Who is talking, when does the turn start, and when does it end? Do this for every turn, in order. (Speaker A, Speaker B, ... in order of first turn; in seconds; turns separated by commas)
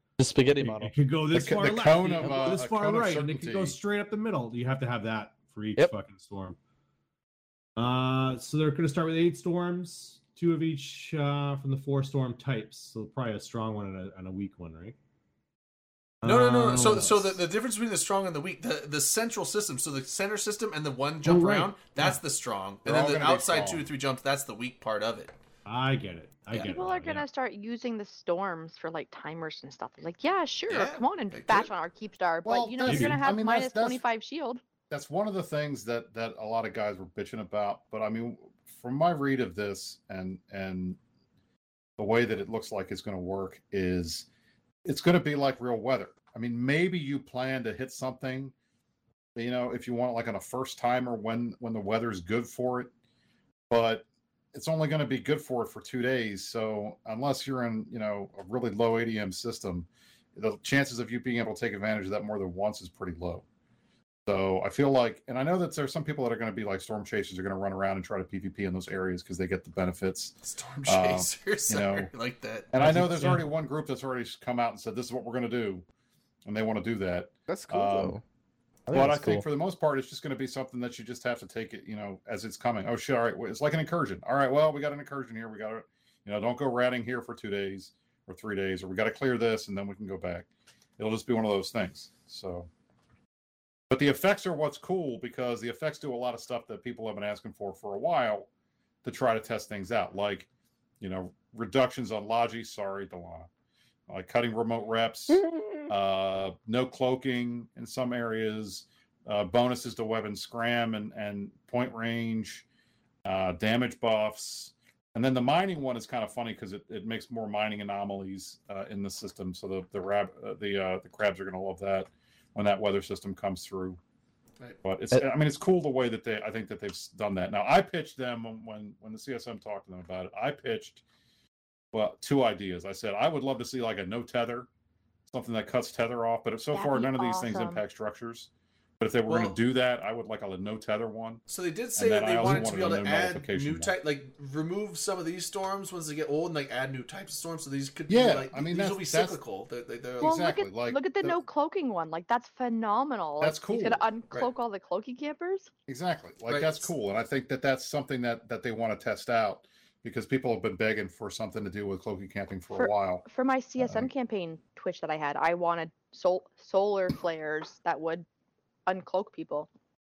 Speaker A: 0.2-0.9, Speaker B: 0.6-6.5, Speaker C: 1.3-3.8, Speaker A: 2.2-2.6, Speaker B: 7.8-14.9, Speaker B: 16.2-17.4, Speaker D: 16.2-25.3, Speaker B: 21.2-22.2, Speaker C: 22.8-23.9, Speaker B: 25.7-27.2, Speaker E: 26.5-34.6, Speaker D: 30.7-31.7, Speaker C: 32.4-34.0, Speaker B: 32.9-33.2, Speaker C: 34.9-41.0, Speaker C: 42.0-44.2, Speaker C: 44.8-48.5, Speaker C: 49.4-52.9, Speaker C: 53.7-63.4, Speaker C: 64.2-72.1, Speaker D: 70.4-72.7, Speaker C: 72.7-75.8, Speaker B: 72.8-73.4, Speaker C: 76.4-78.2, Speaker A: 77.5-78.2, Speaker A: 78.9-79.4, Speaker C: 78.9-92.7, Speaker C: 93.9-98.5, Speaker C: 99.0-100.5, Speaker C: 101.0-103.5, Speaker C: 104.1-112.6, Speaker C: 113.2-124.0, Speaker C: 124.8-131.0, Speaker C: 131.9-134.7, Speaker C: 135.3-141.4, Speaker E: 136.7-137.8, Speaker D: 139.3-139.6, Speaker D: 141.5-150.4, Speaker C: 141.9-143.9, Speaker C: 148.1-149.4, Speaker C: 150.2-151.4, Speaker E: 150.2-155.7, Speaker C: 153.4-154.1, Speaker C: 155.9-163.2, Speaker D: 156.5-156.9, Speaker E: 162.7-168.2, Speaker C: 163.8-164.1, Speaker E: 168.8-169.7